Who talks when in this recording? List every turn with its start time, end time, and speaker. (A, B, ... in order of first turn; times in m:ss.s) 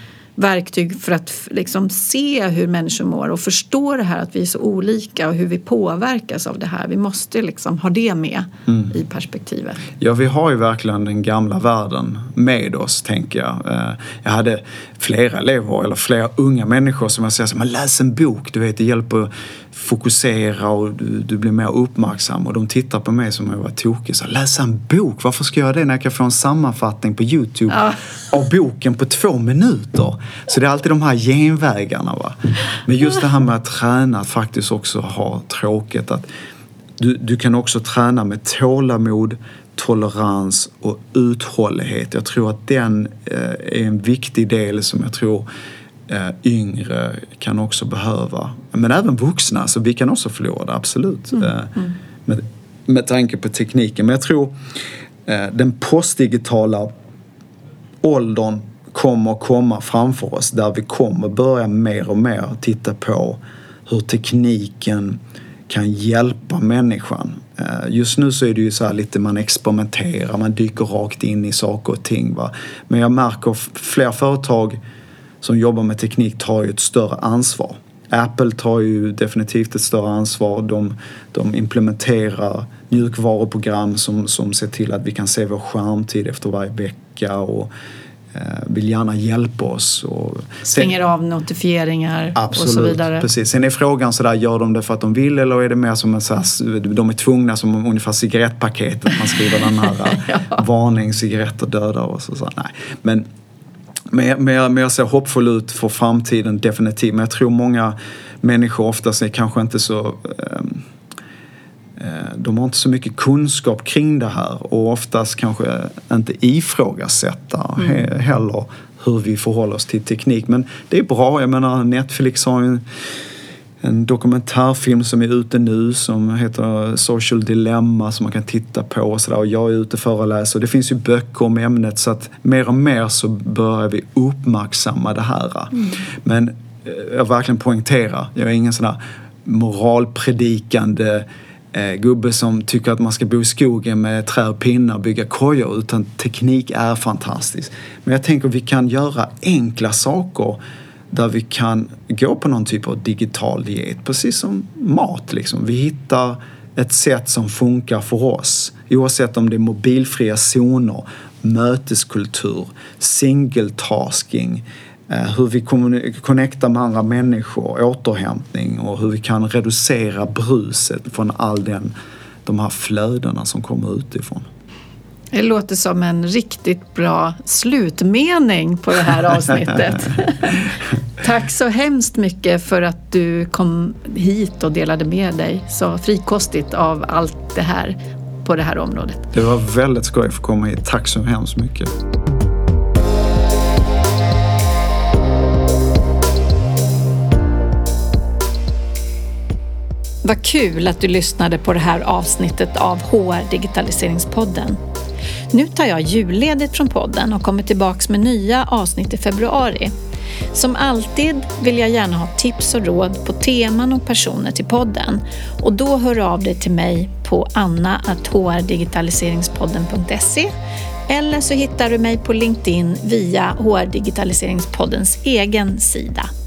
0:00.4-0:09.8 A
0:10.0-0:36.3 B
0:37.0-0:45.4 B
0:46.1-0:54.5 B
0:55.2-0:56.9 B
0:58.0-1:14.8 B
1:15.4-1:27.7 B
1:28.3-1:30.9 B
1:30.7-1:33.3 A
1:32.4-1:43.3 B
1:40.2-1:40.6 A
1:44.1-1:50.8 B
1:52.0-2:02.8 B
2:03.8-2:51.9 B
2:52.4-2:54.5 B
2:55.3-3:09.2 A
3:09.3-3:11.9 B
3:20.2-3:24.8 A
3:25.5-3:29.9 A
3:30.5-3:40.5 A
3:41.1-3:46.3 A